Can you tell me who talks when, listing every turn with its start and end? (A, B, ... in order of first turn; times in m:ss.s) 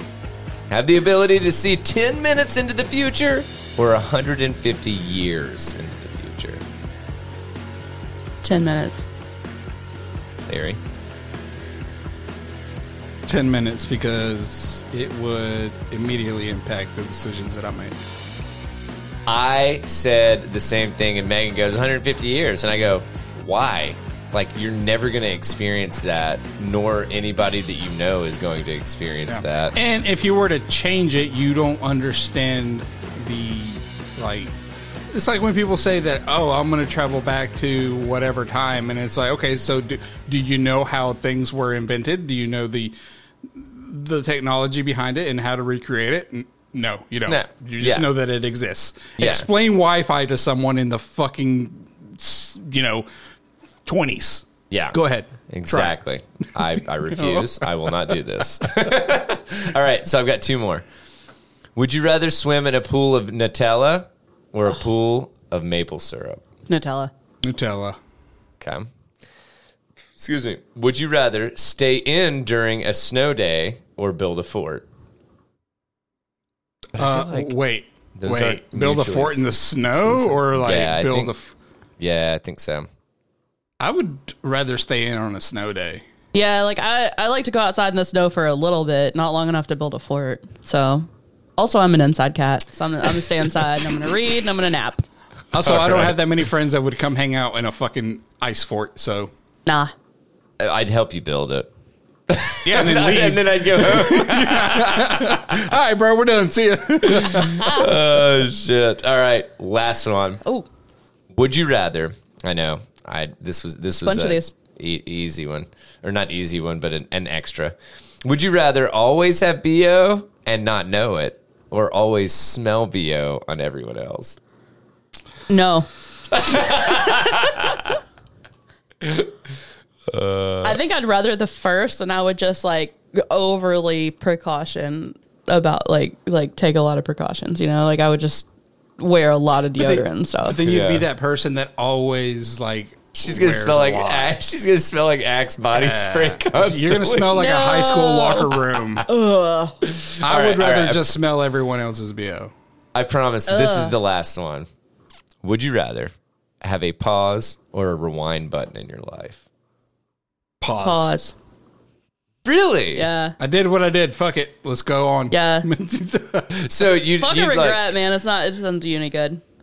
0:00.7-0:06.6 A
0:08.4-0:09.1 B
0:10.4-0:10.8 A
0:13.3-0:18.0 C
0:19.3-0:29.7 A
0:29.3-0:34.5 C
0:35.1-0:42.9 C
0:43.5-0:53.0 C
0:47.2-0:48.1 A
0:49.2-0:49.5 A
0:53.8-0:56.0 C
0:54.7-1:00.8 A
0:57.1-0:57.7 C
1:01.8-1:06.4 A
1:06.7-1:07.1 B
1:07.4-1:08.0 C
1:08.6-1:08.9 A
1:10.2-1:14.8 A
1:16.9-1:17.6 A
1:17.0-1:21.5 C
1:18.2-1:21.3 A
1:22.0-1:22.9 A
1:23.8-1:26.0 C
1:26.3-1:35.0 B
1:35.5-1:39.3 C
1:35.6-1:36.2 A
1:39.6-1:39.9 B
1:40.6-1:41.7 A
1:42.3-1:45.7 A
1:42.6-1:47.6 C
1:47.0-1:50.4 A
1:47.5-1:47.9 B
1:51.3-2:04.4 A
1:54.0-1:54.5 B
2:05.5-2:05.9 B
2:06.3-2:07.9 A
2:09.0-2:09.3 A
2:10.1-2:10.8 A
2:10.6-2:18.5 B
2:19.0-2:20.6 B
2:19.8-2:24.4 C
2:20.6-2:21.1 A
2:23.1-2:27.4 A
2:25.7-2:29.1 C
2:27.3-2:29.8 B
2:29.8-2:31.2 A
2:30.2-2:32.5 C
2:32.9-2:34.7 A
2:33.5-2:34.0 B
2:35.4-2:39.4 A
2:40.6-2:41.1 C
2:40.8-2:41.3 B
2:42.4-2:43.1 A
2:42.9-2:43.3 B
2:43.4-2:46.6 C
2:45.3-2:45.7 B
2:46.5-2:47.8 A
2:47.2-2:49.4 B